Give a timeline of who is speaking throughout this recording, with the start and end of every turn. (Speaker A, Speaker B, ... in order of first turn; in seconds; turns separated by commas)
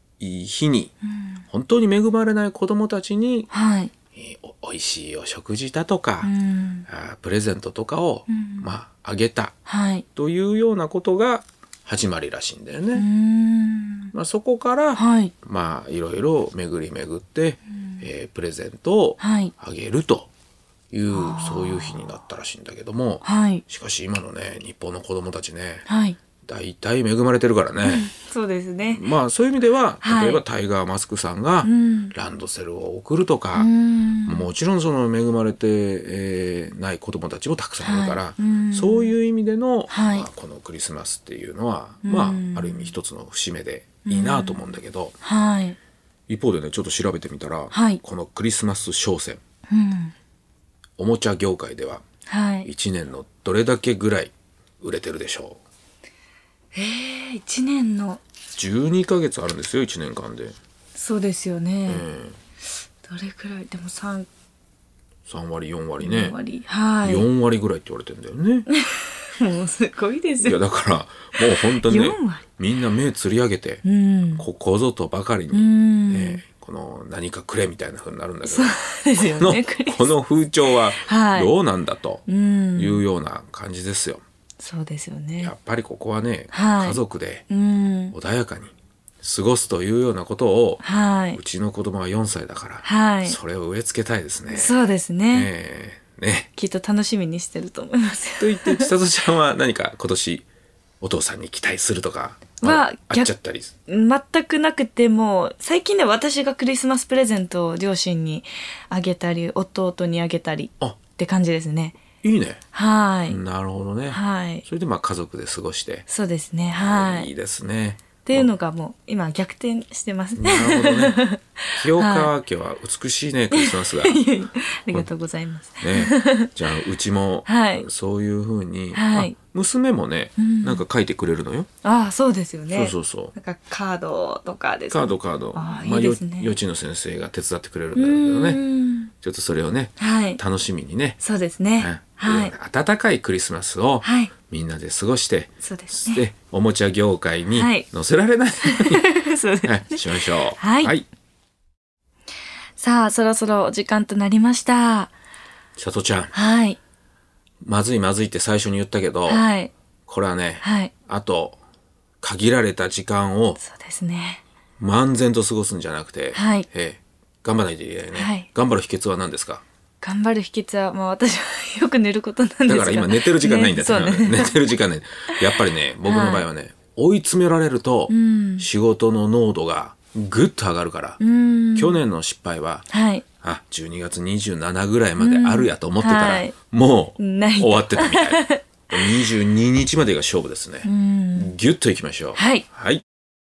Speaker A: 0.2-0.9, Speaker A: 1.5-3.5, Speaker B: 3.5-3.9, Speaker A: 4.1-6.3, Speaker B: 6.2-6.9, Speaker A: 6.9-9.6, Speaker B: 8.3-8.7, Speaker B: 9.7-10.1, Speaker A: 10.2-13.1, Speaker B: 12.9-14.1, Speaker A: 14.1-20.3, Speaker B: 15.0-15.3, Speaker B: 19.2-19.5, Speaker A: 20.9-25.9, Speaker B: 21.1-22.0, Speaker B: 23.2-23.6, Speaker B: 25.9-26.2, Speaker A: 26.4-28.1, Speaker B: 27.8-29.0, Speaker A: 28.9-33.7, Speaker B: 30.0-30.4, Speaker B: 31.6-32.1, Speaker B: 33.6-34.5, Speaker A: 34.2-45.1, Speaker B: 37.8-39.1, Speaker B: 39.9-40.3, Speaker B: 42.0-43.0, Speaker B: 44.1-44.6, Speaker B: 45.2-45.8, Speaker A: 46.3-49.4, Speaker B: 47.7-48.0, Speaker B: 49.7-50.1, Speaker A: 51.0-52.0, Speaker B: 52.3-52.7, Speaker A: 52.6-55.6, Speaker B: 56.7-58.2, Speaker A: 58.5-60.6, Speaker B: 61.0-62.1, Speaker A: 61.9-62.4, Speaker B: 63.0-64.3, Speaker A: 65.3-66.4, Speaker B: 66.0-67.3, Speaker A: 67.0-68.7, Speaker B: 68.7-70.6, Speaker A: 70.4-73.8, Speaker B: 71.4-72.4, Speaker B: 73.8-74.5, Speaker A: 74.4-82.2, Speaker B: 75.5-76.4, Speaker B: 78.5-80.1, Speaker B: 81.0-81.5, Speaker B: 82.3-83.0, Speaker A: 82.8-84.2, Speaker B: 84.6-85.5, Speaker A: 85.4-87.5, Speaker B: 86.5-88.2, Speaker A: 88.1-94.8, Speaker B: 90.8-91.4, Speaker B: 92.8-93.4, Speaker B: 94.5-95.5, Speaker A: 95.3-96.5, Speaker B: 96.6-98.9, Speaker A: 98.4-100.5, Speaker A: 101.0-103.7, Speaker B: 102.6-103.3, Speaker B: 103.9-112.0, Speaker A: 112.2-112.6, Speaker B: 112.7-113.4, Speaker A: 113.3-116.1, Speaker B: 114.1-114.7, Speaker B: 116.1-117.3, Speaker A: 116.8-118.5, Speaker B: 118.2-122.3, Speaker A: 120.4-121.2, Speaker A: 121.7-124.2, Speaker B: 123.5-126.5, Speaker A: 125.8-131.7, Speaker B: 127.5-127.9, Speaker B: 128.9-129.4, Speaker B: 130.4-130.8, Speaker B: 131.8-136.6, Speaker A: 132.7-133.3, Speaker A: 134.9-138.6, Speaker B: 137.9-139.1, Speaker A: 139.2-141.2, Speaker B: 140.0-140.4, Speaker B: 141.2-142.5, Speaker A: 141.8-149.1, Speaker B: 144.0-144.3, Speaker B: 145.6-146.2, Speaker B: 147.6-147.9, Speaker B: 148.6-150.9, Speaker A: 149.6-151.1, Speaker B: 152.8-155.1, Speaker A: 155.8-156.3, Speaker B: 156.3-156.8, Speaker A: 157.6-159.4, Speaker B: 159.3-159.7, Speaker A: 160.1-161.6, Speaker B: 160.6-160.9, Speaker A: 162.2-163.6, Speaker B: 163.6-164.4, Speaker A: 164.8-169.6, Speaker B: 166.3-166.7, Speaker B: 168.2-168.5, Speaker B: 170.0-174.7, Speaker A: 172.7-181.2, Speaker B: 175.3-176.5, Speaker B: 178.1-178.7, Speaker B: 181.2-182.0, Speaker A: 181.8-182.9, Speaker B: 182.9-183.3, Speaker A: 183.4-193.0, Speaker B: 185.2-186.6, Speaker B: 187.2-189.3, Speaker B: 190.8-191.5, Speaker B: 192.3-192.7